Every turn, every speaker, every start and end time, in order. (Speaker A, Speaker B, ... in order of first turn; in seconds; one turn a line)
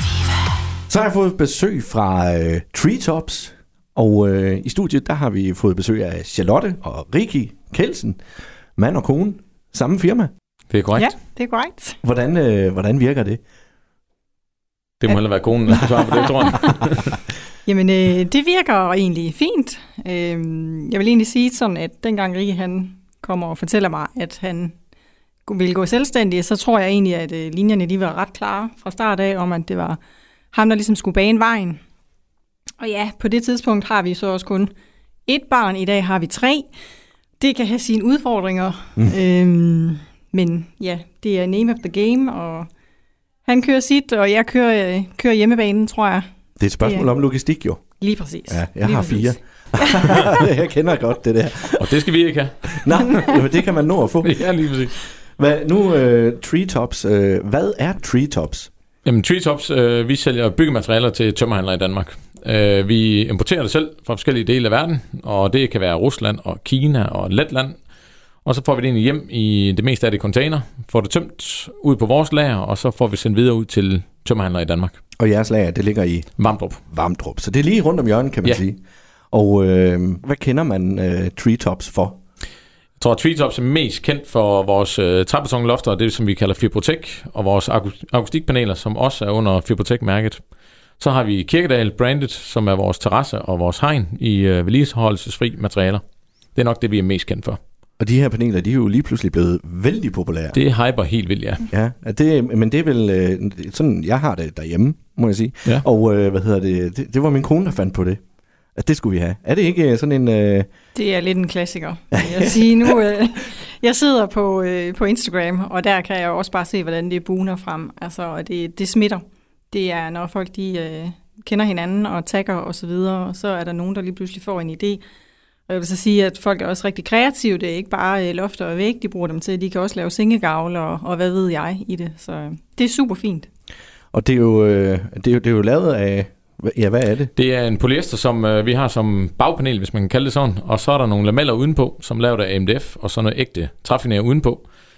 Speaker A: 0.9-8.2
Speaker A: 8.8-10.3
Speaker B: 10.7-11.1
Speaker C: 10.9-12.0
Speaker A: 12.0-13.4
Speaker B: 15.0-17.1
Speaker C: 15.7-16.5
Speaker C: 17.6-24.7
Speaker C: 25.4-30.0
Speaker C: 30.5-31.8
Speaker C: 32.8-34.7
Speaker C: 35.3-36.7
Speaker C: 37.4-42.7
Speaker C: 43.4-46.2
Speaker A: 46.6-47.8
Speaker C: 46.8-47.1
Speaker C: 48.0-50.3
Speaker A: 48.5-52.0
Speaker B: 51.8-53.2
Speaker A: 52.7-54.5
Speaker B: 54.2-55.0
Speaker A: 55.0-58.7
Speaker B: 59.0-67.8
Speaker B: 68.4-75.0
Speaker A: 75.2-78.8
Speaker B: 76.4-76.8
Speaker A: 79.3-82.2
Speaker B: 83.0-90.4
Speaker B: 91.0-96.0
Speaker B: 96.5-97.6
Speaker A: 98.0-100.6
Speaker B: 100.5-101.7
Speaker A: 101.7-108.2
Speaker A: 108.8-110.7
Speaker C: 110.9-125.0
Speaker A: 112.1-112.9
Speaker C: 125.7-133.5
Speaker A: 134.1-137.3
Speaker B: 137.3-144.6